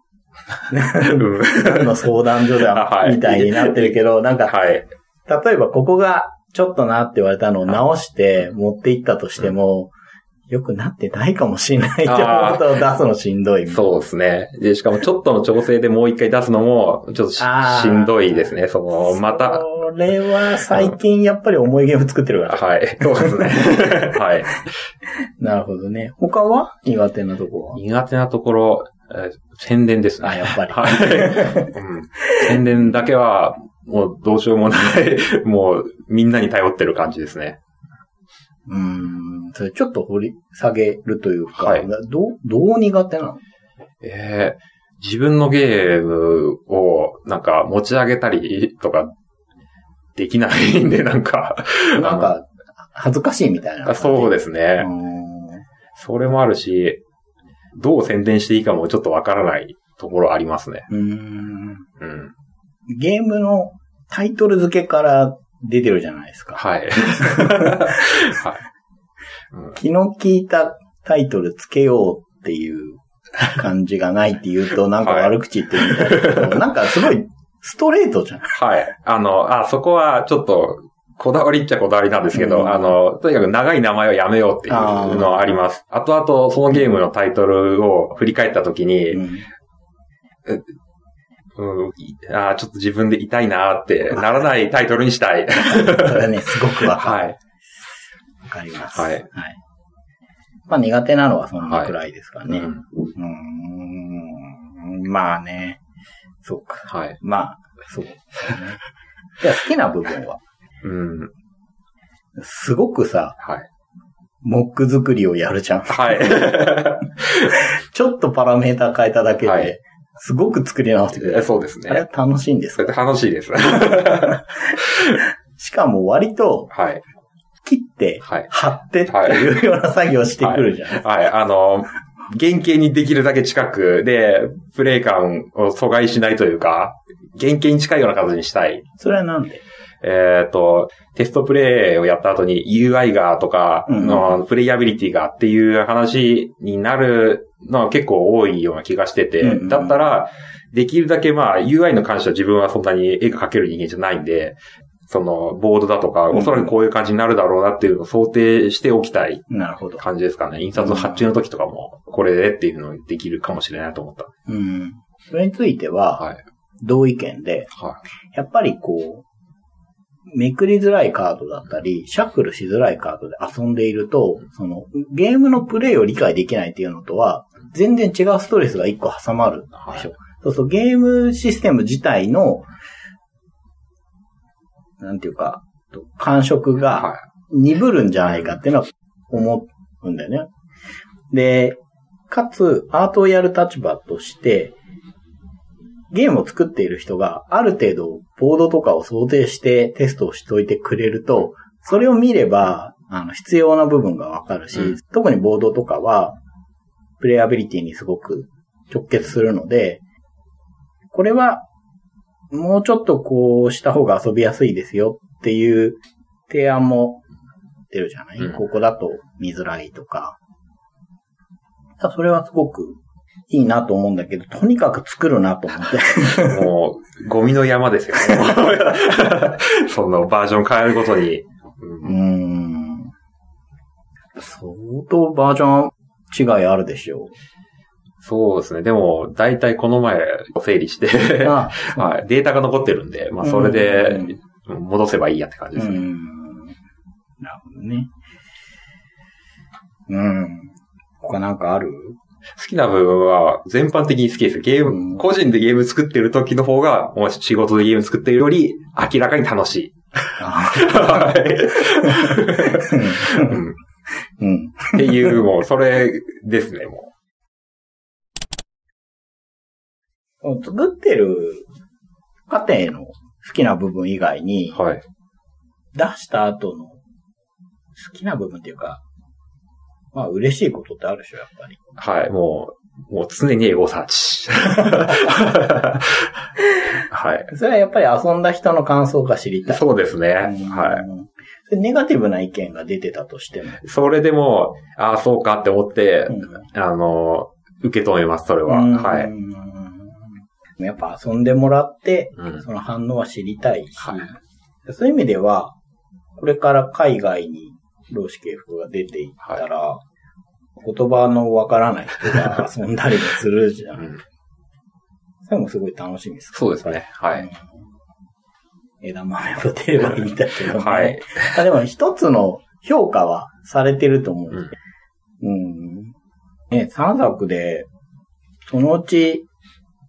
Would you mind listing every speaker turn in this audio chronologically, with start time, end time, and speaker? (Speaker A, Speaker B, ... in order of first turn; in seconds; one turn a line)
Speaker A: 0.7-4.6
Speaker B: 1.0-4.8
Speaker A: 5.3-9.9
Speaker A: 10.5-13.9
Speaker B: 12.1-12.8
Speaker B: 13.7-19.6
Speaker A: 17.4-23.9
Speaker B: 22.5-24.6
Speaker A: 25.4-27.8
Speaker B: 27.7-37.6
Speaker A: 30.2-32.6
Speaker A: 38.7-43.4
Speaker B: 41.6-41.9
Speaker B: 44.0-49.1
Speaker B: 50.2-52.3
Speaker A: 52.0-55.6
Speaker B: 53.9-54.9
Speaker B: 56.0-57.0
Speaker B: 57.7-60.9
Speaker A: 60.9-61.9
Speaker B: 62.0-62.3
Speaker A: 62.9-68.4
Speaker B: 66.6-68.6
Speaker A: 69.7-78.6
Speaker B: 75.0-76.6
Speaker B: 78.5-89.2
Speaker A: 82.3-82.9
Speaker A: 84.7-85.4
Speaker A: 89.1-89.5
Speaker B: 91.6-97.4
Speaker A: 95.6-97.3
Speaker A: 98.5-99.6
Speaker B: 99.0-99.2
Speaker A: 100.7-105.8
Speaker B: 102.5-102.9
Speaker A: 106.4-108.8
Speaker B: 106.9-107.2
Speaker A: 109.4-110.4
Speaker B: 110.8-111.3
Speaker A: 112.4-113.4
Speaker B: 113.4-113.7
Speaker A: 114.4-123.0
Speaker B: 115.9-117.5
Speaker B: 121.2-122.0
Speaker B: 122.8-125.2
Speaker A: 123.9-126.7
Speaker B: 126.7-127.0
Speaker A: 127.6-131.0
Speaker B: 129.1-129.4
Speaker B: 130.4-138.8
Speaker A: 139.0-139.6
Speaker B: 140.0-159.4
Speaker A: 143.9-144.3
Speaker A: 149.4-150.1
Speaker A: 156.3-156.7
Speaker A: 159.5-160.0
Speaker B: 160.0-164.3
Speaker A: 160.8-161.2
Speaker A: 164.5-166.3
Speaker A: 166.8-167.7
Speaker A: 168.3-169.2
Speaker A: 170.3-182.7
Speaker A: 185.0-190.5
Speaker A: 191.3-194.7
Speaker A: 196.1-206.4
Speaker A: 207.2-210.0
Speaker A: 211.1-211.6
Speaker A: 212.5-217.2
Speaker A: 217.9-220.4
Speaker A: 222.0-223.0
Speaker A: 223.5-226.6
Speaker B: 226.4-232.1
Speaker A: 232.0-233.1
Speaker A: 234.4-237.3
Speaker B: 238.2-246.0
Speaker A: 241.4-242.2
Speaker A: 243.4-244.4
Speaker A: 245.8-246.7
Speaker A: 247.4-248.1
Speaker A: 250.1-252.2
Speaker B: 252.6-263.7
Speaker A: 254.9-255.2
Speaker A: 260.4-263.7
Speaker A: 264.4-265.4
Speaker B: 264.9-267.1
Speaker A: 270.4-271.7
Speaker A: 272.5-274.8
Speaker B: 274.7-275.0
Speaker A: 275.9-277.0
Speaker A: 277.9-279.0
Speaker A: 280.1-281.8
Speaker B: 282.0-287.5
Speaker A: 287.5-289.9
Speaker B: 289.7-291.0
Speaker A: 290.4-293.8
Speaker B: 293.8-299.3
Speaker A: 296.3-296.6
Speaker A: 298.7-300.2
Speaker A: 300.8-305.7
Speaker A: 306.4-310.0
Speaker A: 310.8-314.1
Speaker A: 315.4-317.7
Speaker B: 316.5-317.5
Speaker A: 319.0-324.7
Speaker B: 320.7-321.5
Speaker A: 325.4-326.1
Speaker A: 326.7-327.9
Speaker A: 328.7-329.4